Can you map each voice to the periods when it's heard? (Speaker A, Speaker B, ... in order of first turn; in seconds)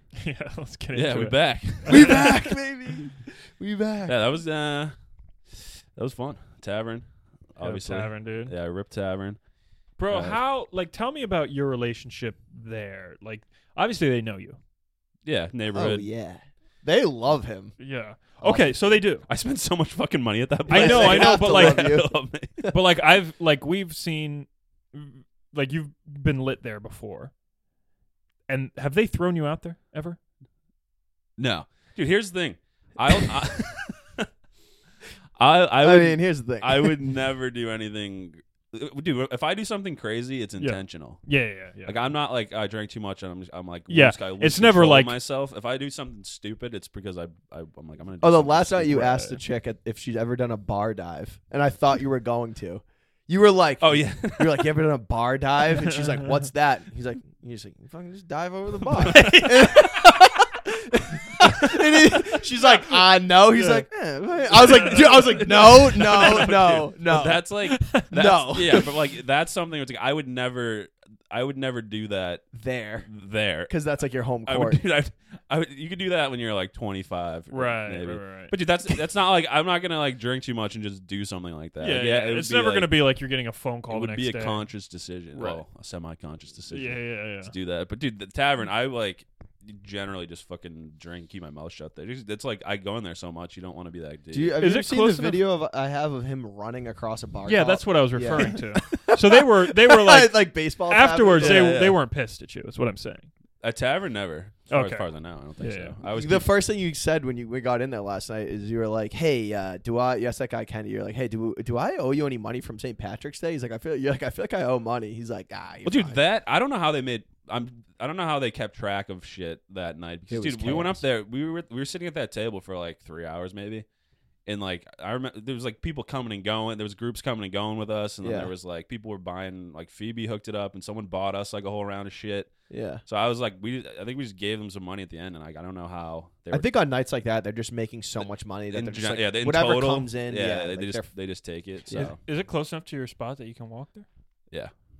Speaker A: 0.2-2.4, 7.6-8.5, 10.0-14.6, 17.8-19.2, 20.7-22.0, 22.7-27.3, 28.5-30.2, 40.6-42.0, 43.9-45.1, 48.8-49.4, 55.9-56.2, 59.0-60.0, 63.5-63.8, 64.5-65.4, 67.7-68.1, 77.5-78.5, 81.8-84.6, 85.3-85.6, 86.7-87.5, 94.6-95.4, 97.5-103.3, 104.7-105.1, 105.6-105.9, 141.9-144.1
Speaker B: 0.9-2.4, 4.0-4.9, 5.9-9.4, 10.1-10.4, 15.2-16.1, 19.3-22.5, 31.4-34.3, 35.4-41.3, 41.8-49.0, 53.8-54.7, 64.7-72.5, 73.0-73.7, 74.5-82.9, 83.9-94.6, 101.4-102.0, 103.6-106.5, 115.8-123.8, 124.5-132.5, 133.0-136.7, 138.7-142.2
Speaker C: 1.9-4.2, 15.7-17.8, 18.4-18.9, 20.7-22.8, 35.8-37.0, 48.2-67.5, 68.0-68.8, 72.5-73.1, 73.7-74.8, 94.3-101.8, 106.0-116.2, 120.3-121.0, 128.2-128.5, 132.7-133.0, 136.5-141.1, 141.9-142.1